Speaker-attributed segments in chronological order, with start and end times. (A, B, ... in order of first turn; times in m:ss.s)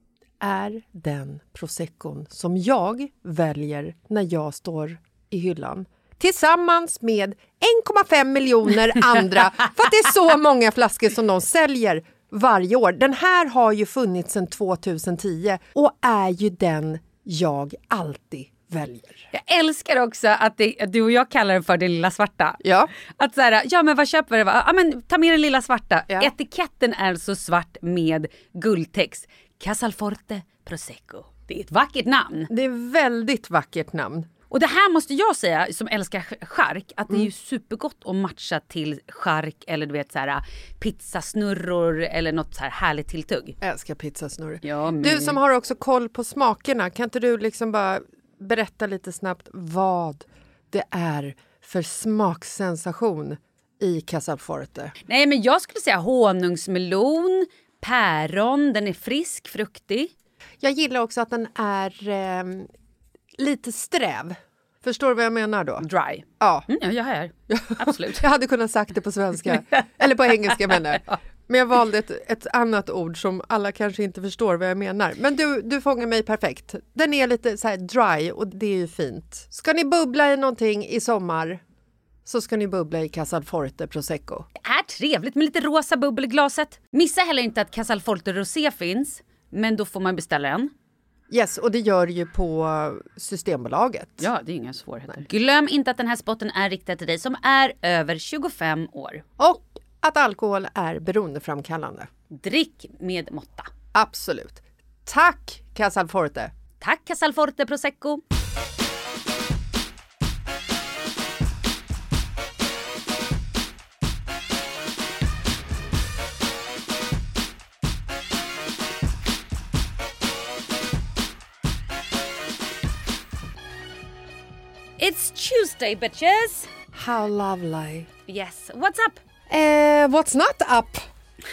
0:00.4-0:19.3 A
0:19.3-0:32.5 B
0:22.6-0:22.9 A
0:32.5-0:34.3 A
0:34.5-0:43.6 B
0:43.6-0:55.0 A
0:44.6-0:45.4 B
0:55.0-1:00.1 B
1:00.6-1:02.7 A
1:03.4-1:05.9 A
1:05.8-1:08.2 B
1:06.4-1:06.8 A
1:07.5-1:21.6 A
1:22.3-1:24.5 A
1:24.6-1:30.7 B
1:31.3-1:34.3 A
1:34.2-1:39.2 B
1:39.4-1:42.1 A
1:42.3-1:43.7 B
1:43.9-1:46.5 A
1:46.8-1:48.2 B
2:05.0-2:06.7 B
2:06.9-2:08.1 A
2:08.3-2:09.2 B
2:09.5-2:11.1 A